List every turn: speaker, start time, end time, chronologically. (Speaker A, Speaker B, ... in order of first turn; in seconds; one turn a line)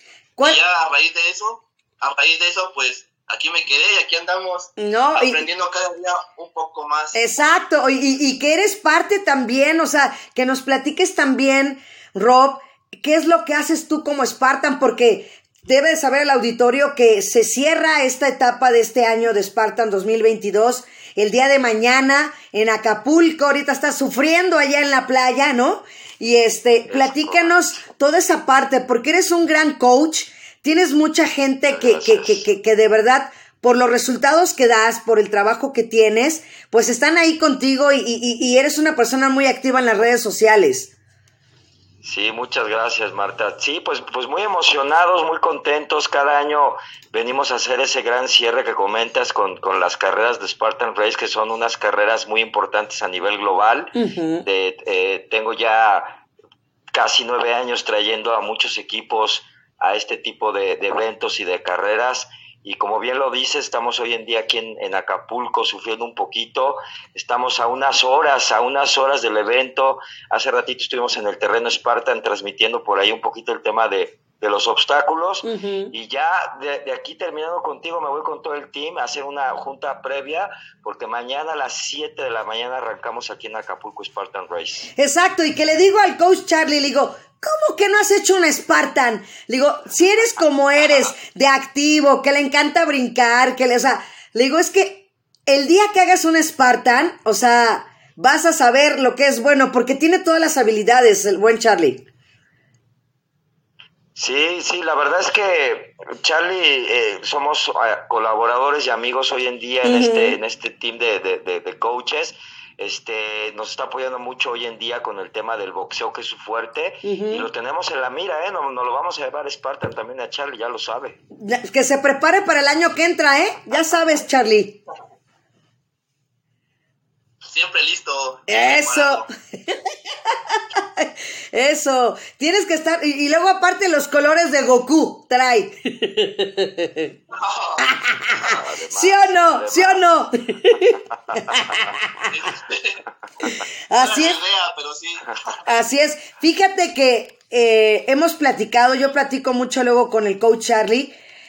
Speaker A: 0.4-7.2
Speaker B: 4.8-5.5
Speaker B: 7.1-40.9
Speaker C: 26.9-27.7
Speaker C: 31.7-32.5
Speaker C: 42.0-56.2
Speaker B: 54.0-54.5
Speaker C: 56.9-84.9
Speaker B: 75.4-75.9
Speaker B: 85.0-102.0
Speaker C: 104.2-121.2
Speaker B: 109.8-110.4
Speaker B: 117.0-117.5
Speaker B: 121.4-124.8
Speaker A: 127.4-129.3
Speaker B: 128.5-129.8
Speaker B: 130.5-137.2
Speaker A: 137.3-137.9
Speaker B: 137.8-142.2
Speaker C: 138.3-140.1
Speaker C: 141.1-141.9
Speaker A: 142.2-143.0
Speaker B: 143.4-144.4
Speaker A: 143.9-145.6
Speaker B: 145.7-151.1